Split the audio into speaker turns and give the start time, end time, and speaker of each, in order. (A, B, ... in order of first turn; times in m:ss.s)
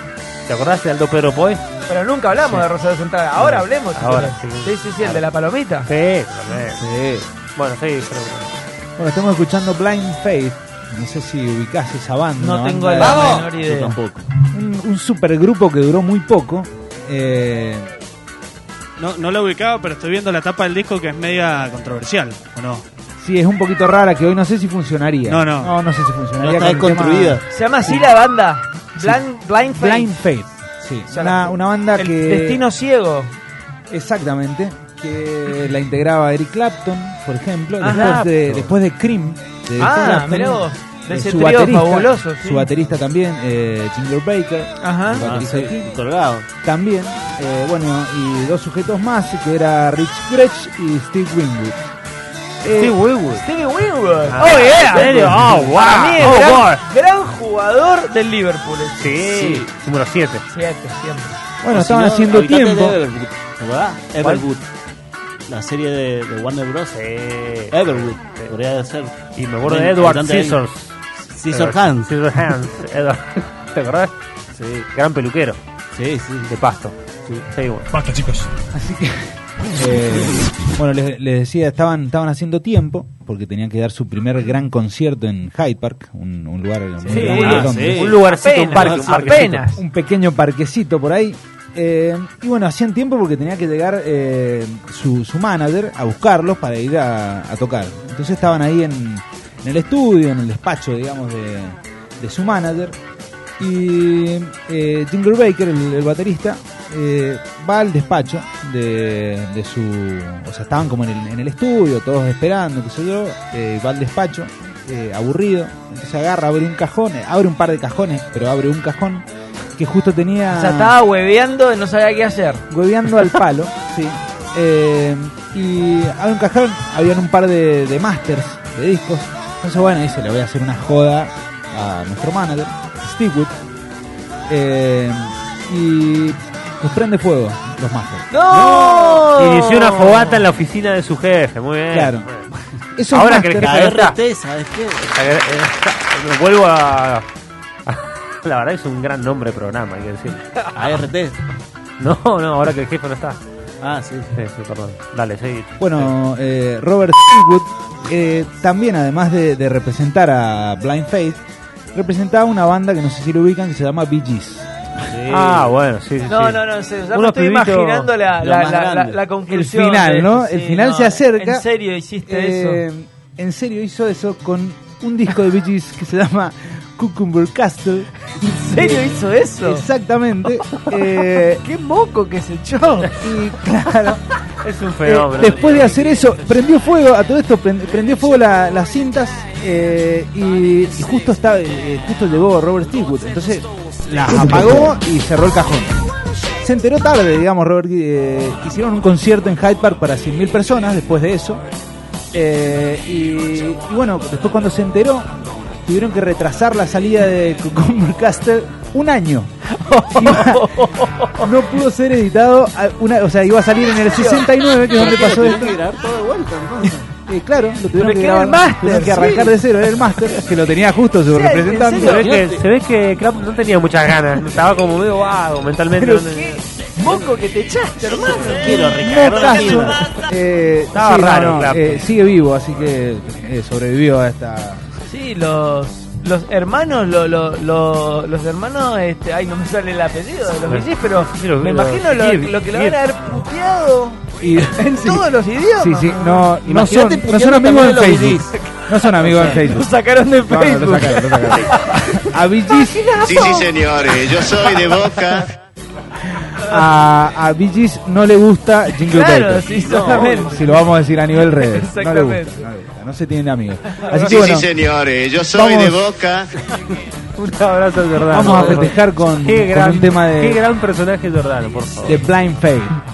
0:00.4-0:01.6 A
0:01.9-0:05.9 B
0:02.4-0:02.6 A
0:03.4-0:05.2 A
0:05.9-0:06.8 A
0:06.5-0:07.2 C
0:07.5-0:08.5 A
0:09.0-0:13.3 C
0:12.4-0:14.0 B
0:13.0-0:14.2 D
0:14.5-0:17.9 C
0:19.0-0:22.8 E
0:23.2-0:28.1 C
0:25.2-0:25.7 E
0:26.4-0:27.4 D
0:27.5-0:30.2 B
0:29.7-0:32.6 C
0:31.1-0:33.3 B
0:33.9-0:46.0 C
0:37.8-0:38.3 B
0:37.9-0:38.7 A
0:39.8-0:42.7 B
0:44.8-0:45.3 B
0:45.1-0:46.4 D
0:46.6-0:51.8 C
0:52.6-0:53.0 C
0:52.7-0:53.4 A
0:53.3-0:59.1 B
0:54.3-0:56.8 A
0:54.4-0:56.4 D
0:59.0-1:00.4 A
0:59.2-0:59.7 D
1:00.5-1:01.4 B
1:01.6-1:03.0 C
1:01.7-1:04.7 D
1:04.2-1:04.4 A
1:05.5-1:07.0 D
1:06.9-1:08.5 A
1:07.7-1:10.6 D
1:09.3-1:11.0 A
1:11.2-1:12.1 D
1:11.5-1:14.1 A
1:14.5-1:14.9 D
1:14.9-1:15.6 A
1:15.9-1:16.5 D
1:16.5-1:17.9 A
1:17.9-1:18.5 E
1:18.7-1:19.2 C
1:19.7-1:28.1 C
1:27.0-1:28.2 D
1:27.1-1:29.6 A
1:28.1-1:29.8 B
1:28.7-1:29.4 D
1:29.7-1:43.0 C
1:43.6-1:59.2 C
1:59.8-2:01.0 C
2:00.5-2:02.6 B
2:02.7-2:13.5 C
2:14.5-2:18.2 C
2:18.3-2:20.4 D
2:18.4-2:19.3 B
2:19.4-2:22.5 A
2:21.9-2:22.3 C
2:23.0-2:23.8 C
2:23.1-2:24.2 A
2:23.6-2:25.1 D
2:25.0-2:27.2 A
2:27.8-2:30.5 A
2:30.7-2:31.4 D
2:32.0-2:33.4 A
2:33.8-2:34.3 D
2:34.3-2:36.1 A
2:35.8-2:41.4 C
2:41.9-2:44.7 C
2:45.1-2:45.7 D
2:45.3-2:46.6 A
2:46.3-2:52.8 B
2:47.1-2:48.1 A
2:48.4-2:49.2 D
2:49.5-2:51.6 C
2:52.2-3:01.6 C
2:58.4-2:59.8 B
3:00.8-3:03.3 B
3:03.2-3:04.2 C
3:04.6-3:06.0 A
3:05.0-3:15.9 C
3:14.4-3:14.8 D
3:16.6-3:21.6 C
3:22.3-3:25.3 C
3:25.8-3:29.5 C
3:29.7-3:31.5 B
3:30.1-3:30.6 C
3:31.4-3:35.8 C
3:34.1-3:34.5 B
3:34.9-3:37.0 D
3:37.1-3:42.2 C
3:38.0-3:39.6 B
3:41.3-3:42.2 B
3:41.9-3:42.6 D
3:42.0-3:46.6 A
3:45.9-3:50.3 B
3:48.0-3:50.0 D
3:48.6-3:54.9 C
3:50.9-3:52.0 A
3:55.1-4:04.2 B
4:00.7-4:03.0 A
4:04.4-4:05.2 C
4:04.7-4:06.5 B
4:05.8-4:09.9 C
4:06.6-4:08.6 D
4:09.2-4:12.2 B
4:09.3-4:09.6 D
4:10.4-4:13.1 C
4:12.8-4:15.1 B
4:13.2-4:15.4 F
4:16.4-4:19.7 C
4:19.0-4:20.9 B
4:19.7-4:20.6 D
4:20.2-4:24.7 C
4:21.4-4:22.6 B
4:23.9-4:24.4 B
4:24.3-4:26.5 F
4:25.4-4:26.1 C
4:27.3-4:32.3 A
4:28.3-4:30.6 C
4:32.0-4:33.0 C